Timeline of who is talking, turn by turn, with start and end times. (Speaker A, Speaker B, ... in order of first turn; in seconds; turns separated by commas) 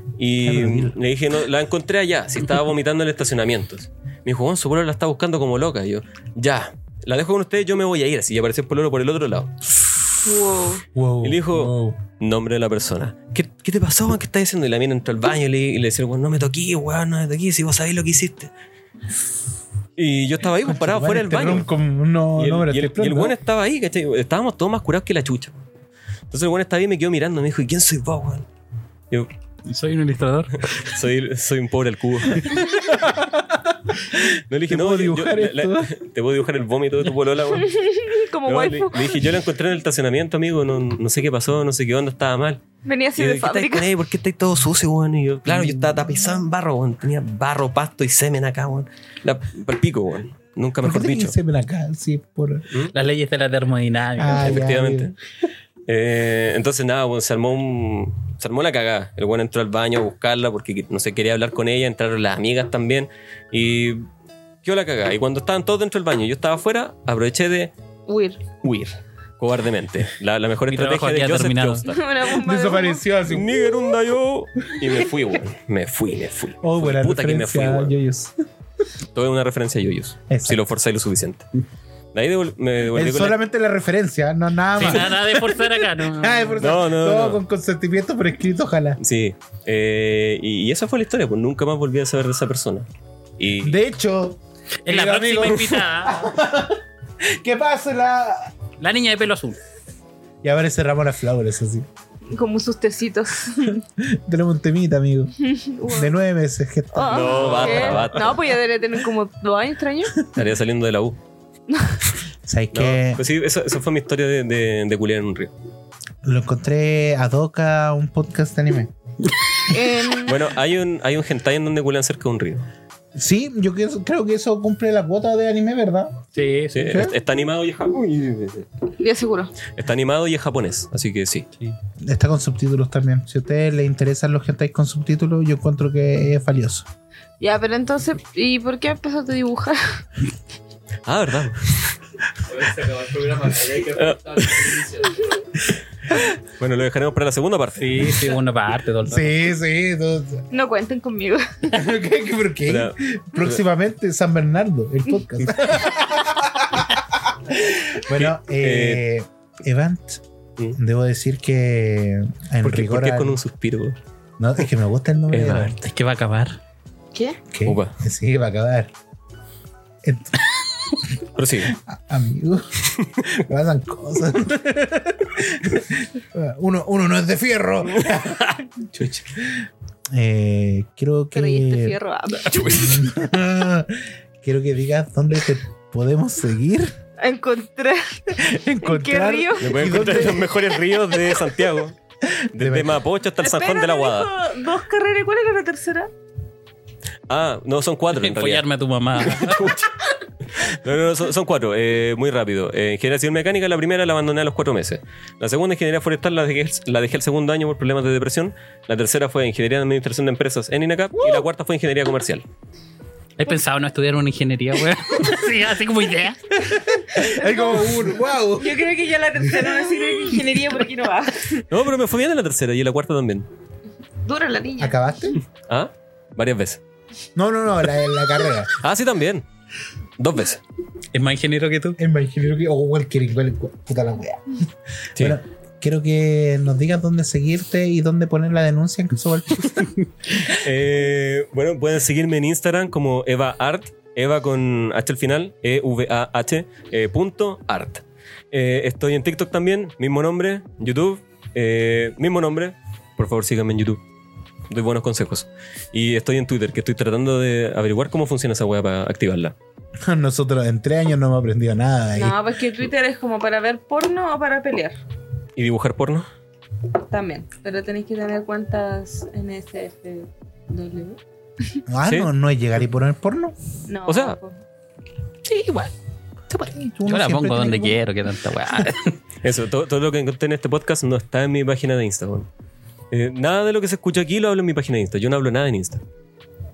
Speaker A: 0.2-9.6, Speaker B: 0.4-1.0, Speaker C: 10.2-10.8, Speaker B: 10.9-12.0, Speaker A: 11.2-18.5, Speaker A: 20.0-21.7, Speaker B: 20.6-23.4, Speaker A: 22.4-25.6, Speaker A: 26.3-28.5, Speaker D: 29.7-30.7, Speaker A: 30.7-32.7, Speaker B: 32.3-35.9, Speaker A: 34.5-37.7, Speaker C: 37.5-39.2, Speaker A: 38.4-42.6, Speaker C: 42.9-43.9, Speaker A: 43.2-51.4, Speaker B: 45.5-46.5, Speaker B: 50.8-52.6, Speaker D: 52.9-54.6, Speaker B: 54.2-55.1, Speaker A: 54.3-55.1, Speaker A: 55.9-64.1, Speaker A: 64.6-67.7, Speaker C: 68.1-68.4, Speaker A: 68.6-72.0, Speaker D: 70.7-71.8, Speaker C: 71.9-73.0, Speaker B: 72.3-73.6, Speaker A: 73.3-78.0, Speaker B: 76.6-78.3, Speaker A: 79.1-81.5, Speaker B: 80.3-80.6, Speaker A: 82.1-83.4, Speaker B: 83.0-89.0, Speaker D: 84.8-86.6, Speaker A: 84.8-85.0, Speaker A: 86.6-87.4, Speaker A: 89.0-92.9, Speaker A: 93.4-93.8, Speaker B: 93.6-98.5, Speaker D: 94.8-96.2, Speaker D: 98.8-99.6, Speaker B: 100.4-101.9, Speaker C: 102.3-103.8, Speaker B: 104.0-105.3, Speaker C: 105.4-106.1, Speaker B: 105.9-108.1, Speaker C: 106.9-110.2, Speaker A: 107.0-108.5, Speaker A: 110.3-111.2, Speaker C: 111.7-112.0, Speaker B: 112.5-113.2, Speaker A: 112.7-115.5, Speaker B: 116.2-118.9, Speaker C: 119.7-120.4, Speaker A: 120.1-122.7, Speaker B: 123.2-126.2, Speaker D: 126.3-127.1, Speaker A: 126.8-128.7, Speaker B: 126.9-127.1, Speaker C: 129.0-129.6, Speaker A: 129.7-131.5, Speaker B: 132.0-136.9, Speaker C: 137.4-140.0, Speaker A: 141.1-142.0, Speaker E: 142.4-145.5, Speaker A: 144.0-144.7, Speaker A: 146.6-148.3, Speaker D: 147.8-149.4, Speaker B: 149.1-150.5, Speaker C: 150.5-151.8, Speaker B: 151.7-160.2, Speaker A: 152.7-153.6, Speaker A: 158.1-159.1, Speaker B: 160.7-163.4, Speaker A: 162.6-164.0, Speaker B: 164.4-165.8, Speaker A: 165.3-165.9, Speaker D: 165.8-166.6, Speaker C: 167.1-167.4, Speaker B: 167.5-168.9, Speaker A: 167.7-167.9, Speaker B: 170.0-170.4, Speaker A: 171.3-171.7, Speaker B: 171.7-182.0, Speaker A: 173.0-173.3, Speaker C: 181.3-182.7, Speaker A: 182.4-183.1, Speaker B: 182.7-186.9, Speaker C: 187.2-190.2, Speaker B: 188.3-190.5, Speaker A: 189.6-191.9, Speaker B: 192.2-193.0, Speaker A: 192.6-194.3, Speaker C: 193.4-196.1, Speaker A: 197.3-198.7, Speaker D: 198.1-199.7, Speaker A: 199.2-199.9, Speaker A: 200.5-212.4, Speaker B: 211.2-211.4, Speaker D: 213.4-216.4, Speaker B: 216.5-218.8, Speaker C: 217.2-218.1, Speaker C: 218.6-221.6, Speaker B: 219.4-220.5, Speaker A: 221.7-223.5, Speaker C: 224.2-225.4, Speaker B: 224.8-225.4, Speaker A: 225.7-226.8, Speaker B: 227.4-228.7, Speaker A: 228.8-229.5, Speaker A: 230.2-230.6, Speaker D: 231.1-232.0, Speaker B: 232.0-240.0, Speaker A: 240.4-254.0, Speaker A: 254.7-259.6, Speaker B: 260.0-262.4, Speaker C: 262.2-265.0, Speaker A: 265.6-266.3, Speaker C: 267.0-271.2, Speaker B: 271.9-273.6, Speaker C: 273.9-274.6, Speaker A: 274.1-274.4, Speaker D: 275.5-275.9, Speaker D: 276.5-279.2, Speaker B: 276.7-278.0, Speaker A: 279.4-282.5, Speaker A: 283.1-286.0